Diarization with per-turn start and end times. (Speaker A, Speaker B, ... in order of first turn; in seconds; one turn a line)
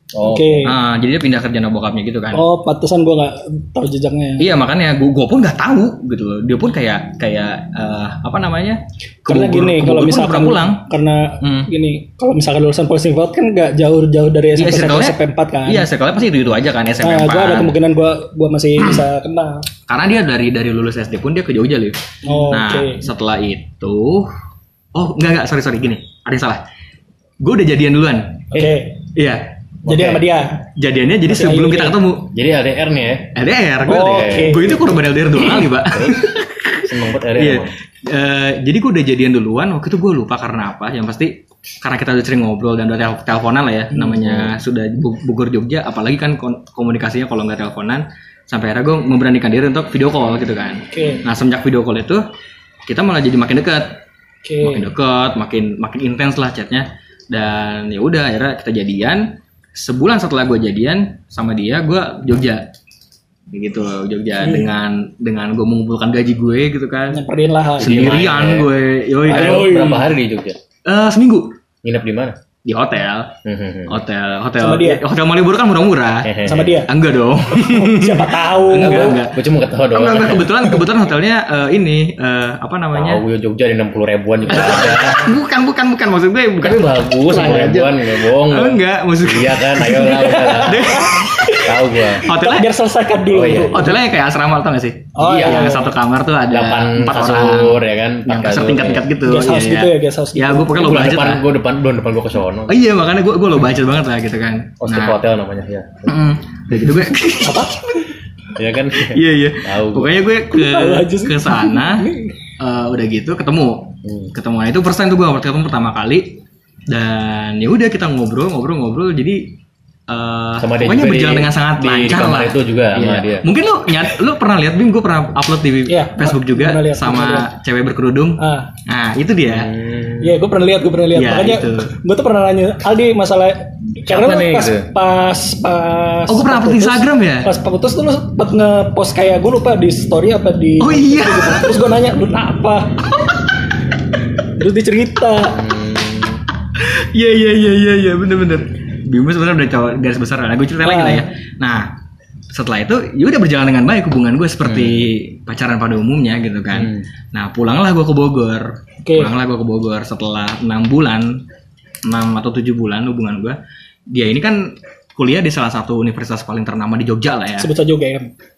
Speaker A: 0.1-0.8
Speaker B: 0.2-0.7
Speaker C: 0.7-2.4
Speaker B: 2.3-4.5
Speaker C: 4.4-10.8
Speaker B: 9.3-15.9
Speaker C: 11.4-11.7
Speaker C: 14.6-17.7
Speaker B: 17.0-19.7
Speaker C: 19.9-24.3
Speaker B: 22.2-23.0
Speaker C: 24.9-26.6
Speaker C: 27.4-28.5
Speaker B: 28.5-29.0
Speaker C: 29.1-29.4
Speaker A: 29.9-30.2
Speaker B: 29.9-30.6
Speaker C: 30.8-32.3
Speaker B: 31.3-32.0
Speaker A: 32.3-33.4
Speaker C: 33.4-52.2
Speaker B: 33.9-34.8
Speaker A: 33.9-34.8
Speaker A: 35.8-37.7
Speaker A: 44.0-44.5
Speaker B: 50.9-51.2
Speaker C: 52.9-54.0
Speaker B: 54.5-54.9
Speaker C: 54.6-62.7
Speaker C: 63.5-67.2
Speaker B: 64.4-64.7
Speaker B: 67.1-68.2
Speaker A: 67.8-68.7
Speaker C: 67.8-69.9
Speaker A: 69.2-70.6
Speaker B: 69.3-70.1
Speaker C: 70.9-71.5
Speaker A: 71.8-72.4
Speaker C: 72.7-73.3
Speaker A: 73.5-74.0
Speaker C: 73.9-83.2
Speaker B: 74.6-75.0
Speaker A: 76.2-76.8
Speaker B: 76.5-76.9
Speaker B: 77.5-79.2
Speaker A: 78.7-80.8
Speaker A: 82.9-85.3
Speaker C: 84.5-91.6
Speaker A: 86.6-92.3
Speaker B: 87.3-87.9
Speaker B: 89.9-91.7
Speaker B: 92.2-94.0
Speaker C: 92.2-92.7
Speaker A: 93.3-94.0
Speaker C: 93.7-101.5
Speaker B: 95.2-95.9
Speaker A: 95.2-95.7
Speaker A: 96.5-99.1
Speaker B: 99.2-100.8
Speaker A: 100.7-102.8
Speaker C: 102.7-105.2
Speaker A: 104.8-106.1
Speaker C: 106.1-108.0
Speaker B: 107.4-108.0
Speaker A: 108.6-110.2
Speaker C: 108.9-112.1
Speaker B: 110.5-112.3
Speaker C: 112.6-119.5
Speaker A: 114.0-114.3
Speaker C: 120.1-129.7
Speaker A: 120.6-123.5
Speaker B: 125.9-127.5
Speaker B: 128.4-128.7
Speaker A: 129.5-130.4
Speaker B: 130.2-143.3
Speaker C: 131.1-131.9
Speaker A: 134.1-134.9
Speaker C: 136.3-137.5
Speaker C: 140.8-141.8
Speaker B: 144.6-145.6
Speaker A: 145.5-146.4
Speaker C: 146.8-151.9
Speaker B: 150.8-151.2
Speaker C: 152.5-161.4
Speaker A: 154.7-155.1
Speaker A: 156.7-157.0
Speaker B: 159.1-159.3
Speaker C: 162.1-163.6
Speaker C: 164.1-167.7
Speaker B: 167.6-168.3